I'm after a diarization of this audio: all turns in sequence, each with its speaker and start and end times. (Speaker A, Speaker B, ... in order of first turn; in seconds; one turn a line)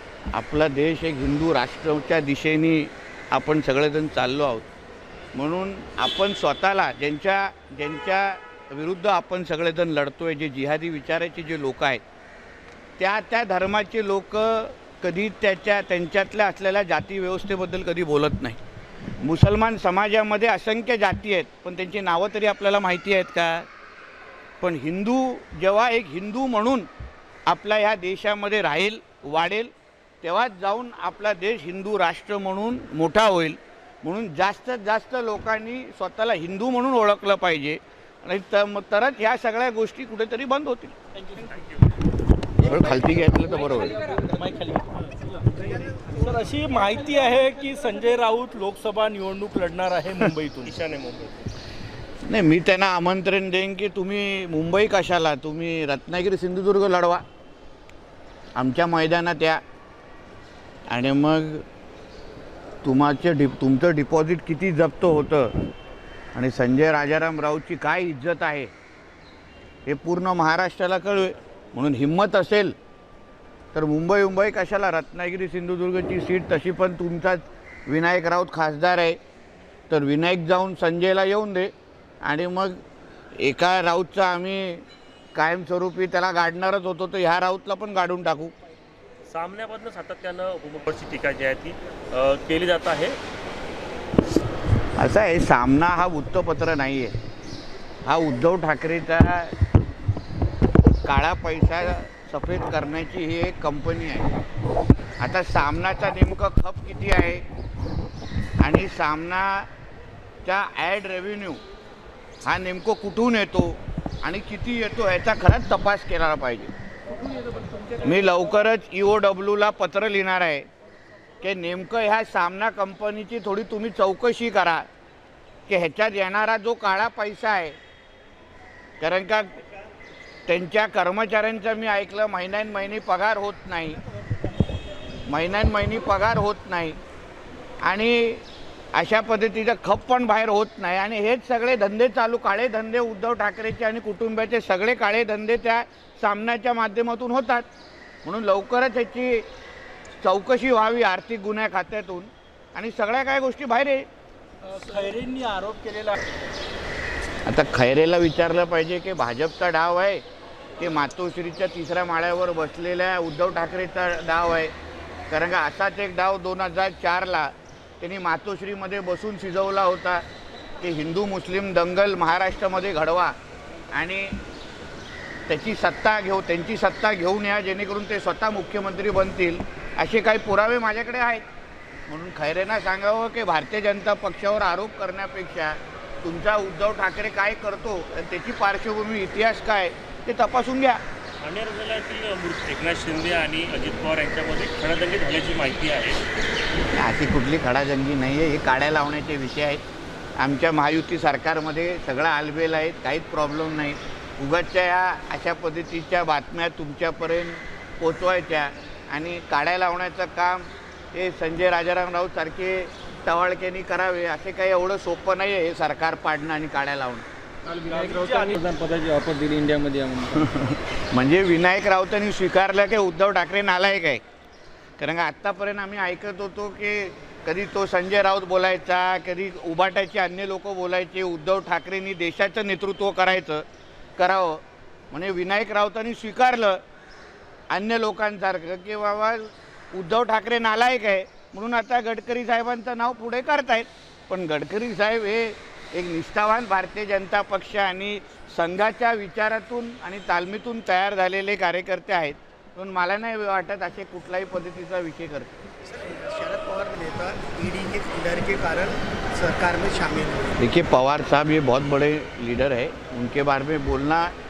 Speaker A: 0.3-4.7
Speaker A: 5.3-12.0
Speaker A: 13.0-18.6
Speaker A: 19.2-23.7
Speaker A: 24.6-26.9
Speaker A: 27.5-40.9
Speaker B: 41.1-41.5
Speaker A: 42.6-44.0
Speaker B: 44.0-50.7
Speaker C: 50.6-51.5
Speaker A: 52.2-57.2
Speaker A: 58.5-59.6
Speaker A: 60.9-61.6
Speaker A: 62.8-65.5
Speaker A: 66.3-68.7
Speaker A: 69.8-72.8
Speaker A: 73.7-79.2
Speaker A: 79.9-81.7
Speaker A: 82.2-82.8
Speaker A: 83.4-88.5
Speaker C: 89.2-93.2
Speaker A: 95.0-97.1
Speaker A: 98.0-99.5
Speaker A: 101.0-104.3
Speaker A: 105.2-107.5
Speaker A: 108.6-109.7
Speaker A: 110.4-111.6
Speaker A: 112.4-116.7
Speaker A: 118.0-120.7
Speaker A: 121.4-124.9
Speaker A: 125.7-127.8
Speaker A: 129.0-129.5
Speaker A: 130.5-134.0
Speaker A: 135.3-137.0
Speaker A: 137.8-147.7
Speaker A: 148.2-149.5
Speaker A: 150.2-154.1
Speaker B: 154.6-156.2
Speaker A: 157.4-160.2
Speaker A: 160.8-164.7
Speaker A: 165.3-170.2
Speaker A: 170.8-173.3
Speaker A: 173.9-174.4
Speaker A: 175.5-181.4
Speaker A: 182.1-191.0
Speaker C: 191.4-196.2
Speaker A: 196.9-199.8
Speaker A: 200.4-217.3
Speaker D: 217.7-220.5
Speaker B: 217.7-218.6
Speaker A: 220.4-224.2
Speaker A: 225.0-233.6
Speaker A: 234.2-236.8
Speaker A: 237.7-255.5
Speaker E: 255.9-260.4
Speaker A: 260.6-264.3